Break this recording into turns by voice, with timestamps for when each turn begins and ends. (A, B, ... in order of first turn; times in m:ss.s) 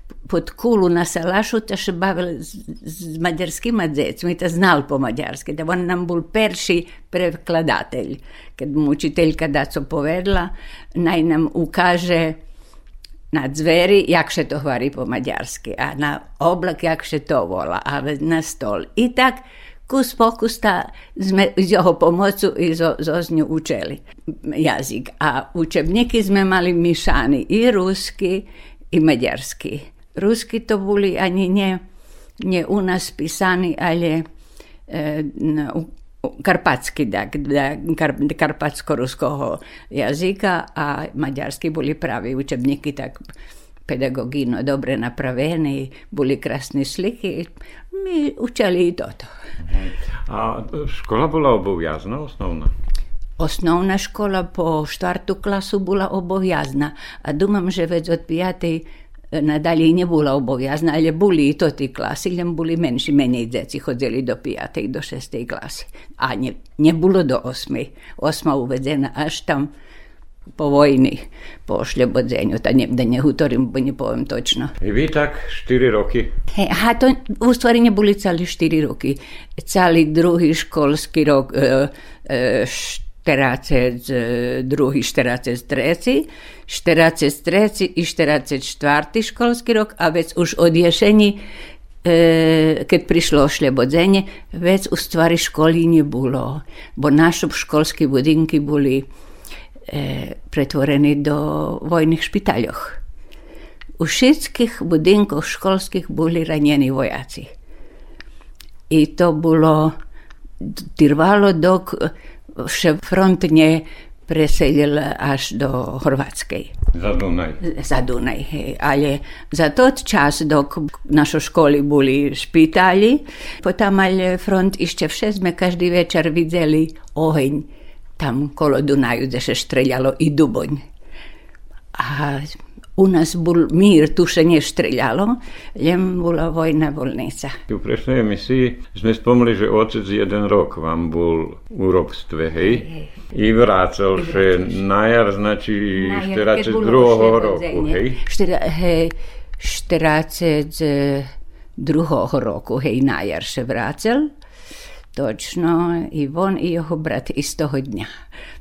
0:00.3-0:12.4 A
0:13.3-0:31.8 A
0:32.4-0:34.3 A
0:34.9-0:43.2 A
0:43.9-0:49.3 A
0:49.6-0:52.7 B
0:53.4-1:09.7 A
1:10.6-1:14.7 A
1:14.8-1:16.3 B
1:16.5-1:31.4 A
1:32.0-1:39.1 A
1:39.9-1:43.0 A
1:44.0-1:47.5 A
1:48.9-1:49.9 A
1:50.6-1:56.7 A
1:56.9-1:57.6 B
1:57.6-2:07.7 A
2:08.2-2:10.8 A
2:11.9-2:17.6 A
2:17.7-2:28.2 B
2:26.0-2:34.3 A
2:35.1-2:38.1 A